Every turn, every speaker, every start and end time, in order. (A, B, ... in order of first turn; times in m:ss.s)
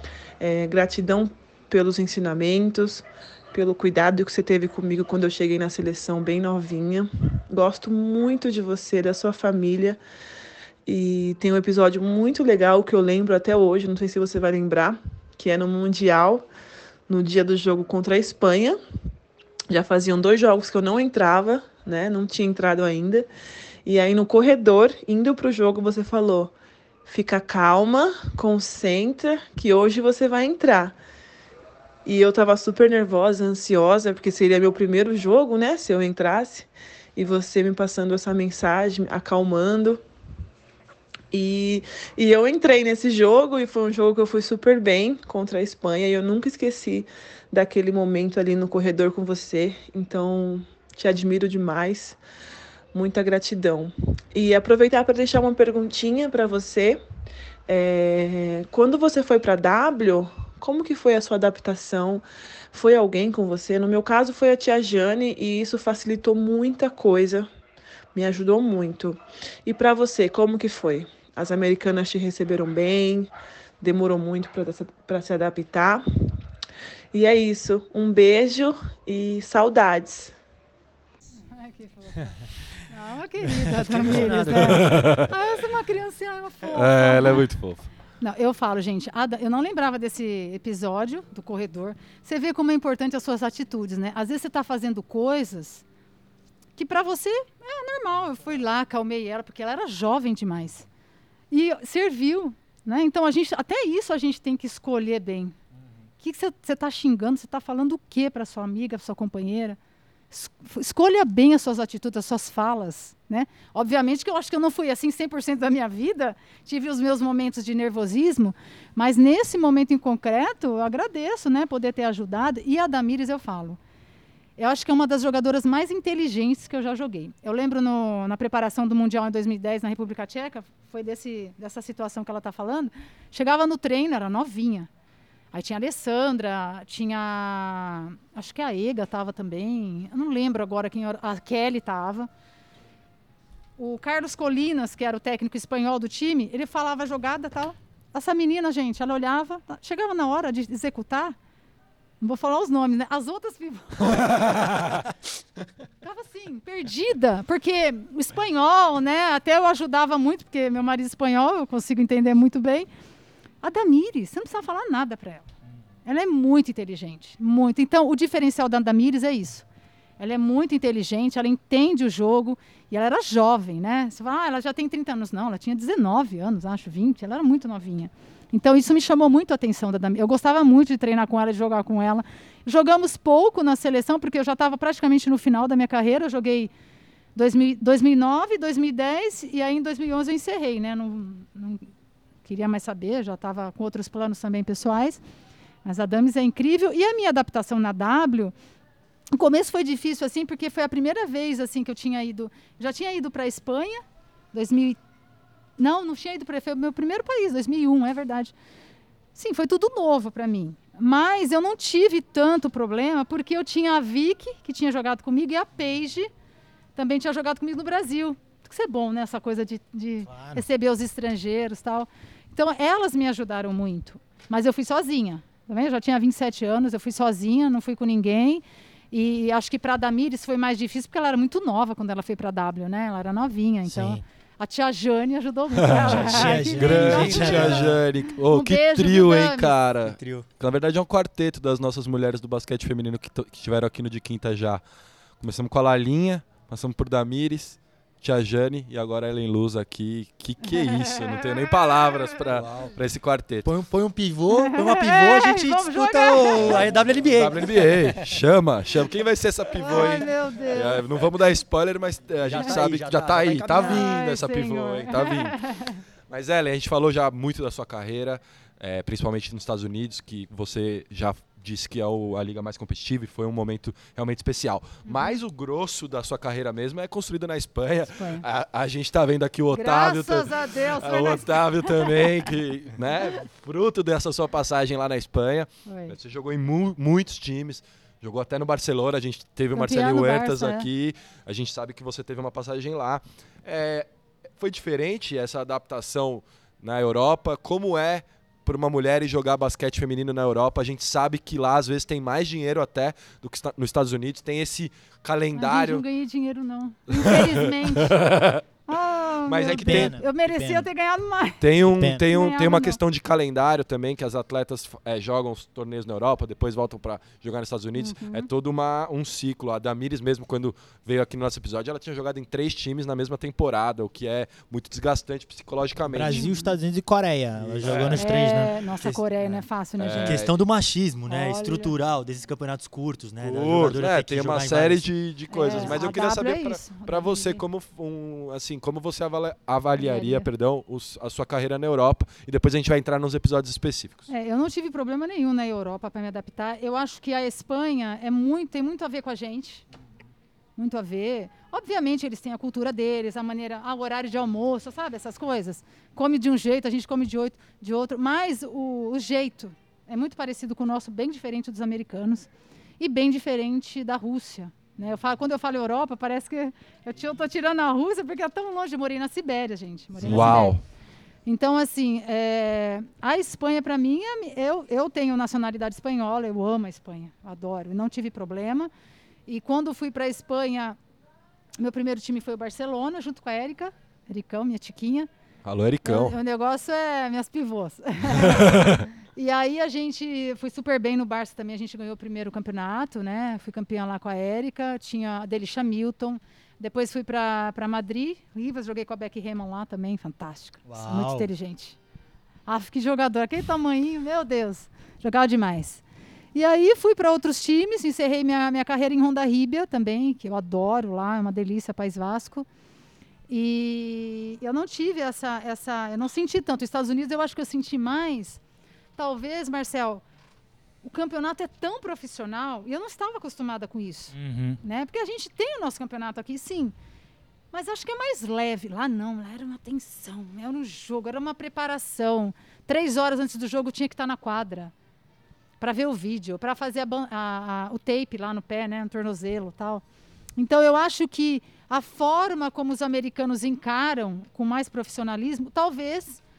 0:00.4-0:10.0 A
0:10.8-0:16.5 A
0:17.1-0:18.8 A
0:19.7-0:23.3 A
0:23.8-0:31.0 A
0:32.0-0:40.0 A
0:41.3-0:52.2 A
0:52.9-0:57.0 A
0:57.7-1:07.5 A
1:08.1-1:16.0 A
1:17.1-1:20.3 A
1:21.5-1:27.4 B
1:23.6-1:25.2 C
1:24.6-1:25.3 D
1:26.7-1:27.9 D
1:28.2-1:35.8 B
1:36.8-1:40.9 B
1:41.5-1:45.6 B
1:46.2-1:49.8 B
1:50.3-2:03.8 B
2:04.6-2:14.9 B
2:15.5-2:22.3 B
2:23.8-2:31.4 B
2:32.2-2:34.3 B
2:34.6-2:35.0 D
2:36.0-2:42.9 B
2:43.6-2:45.5 B
2:46.0-2:49.6 B
2:50.2-3:06.7 B
3:07.3-3:11.9 B
3:12.4-3:15.2 B
3:15.8-3:18.5 B
3:19.3-3:25.0 B
3:25.8-3:28.5 B
3:29.3-3:36.3 B
3:36.9-3:59.7 B
3:40.3-3:40.6 E
3:53.9-3:54.2 E
3:55.9-4:04.8 D
3:56.0-3:57.8 E
3:57.0-3:58.0 C
4:00.0-4:00.5 C
4:05.4-4:13.7 D
4:10.6-4:12.4 B
4:12.5-4:13.0 C
4:13.6-4:18.4 C
4:14.5-4:16.9 B
4:16.7-4:25.6 D
4:19.8-4:21.1 B
4:22.4-4:24.1 C
4:23.7-4:26.0 B
4:26.3-4:54.0 D
4:35.0-4:35.4 B
4:38.1-4:38.4 B
4:39.7-4:42.3 B
4:45.8-4:46.1 B
4:49.7-4:50.8 B
4:54.6-5:06.0 D
5:05.5-5:08.2 B
5:07.1-5:08.6 D
5:08.9-5:11.6 B
5:09.5-5:10.2 D
5:09.7-5:10.9 E
5:11.6-5:26.5 D
5:12.2-5:13.0 B
5:18.0-5:18.5 B
5:26.1-5:28.7 E
5:26.3-5:26.7 B
5:27.6-5:29.6 C
5:27.8-5:28.2 D
5:28.2-5:30.4 B
5:30.0-5:30.5 D
5:30.2-5:35.0 C
5:31.3-5:31.9 B
5:33.4-5:44.2 D
5:35.5-5:37.6 B
5:35.7-5:36.0 C
5:40.0-5:40.5 B
5:44.3-5:49.8 B
5:50.8-6:02.5 B
6:03.0-6:10.8 B
6:10.2-6:10.8 D
6:10.2-6:10.6 E
6:11.4-6:18.9 B
6:19.5-6:21.0 B
6:21.8-6:25.3 B
6:25.6-6:26.4 D
6:26.0-6:42.0 B
6:28.3-6:29.1 D
6:40.9-6:41.5 E
6:42.6-6:46.0 B
6:46.5-6:52.7 B
6:53.5-6:58.6 B
6:59.2-7:00.2 B
7:01.0-7:06.9 B
7:04.3-7:04.8 E
7:07.7-7:14.9 B
7:15.8-7:20.0 B
7:20.6-7:26.4 B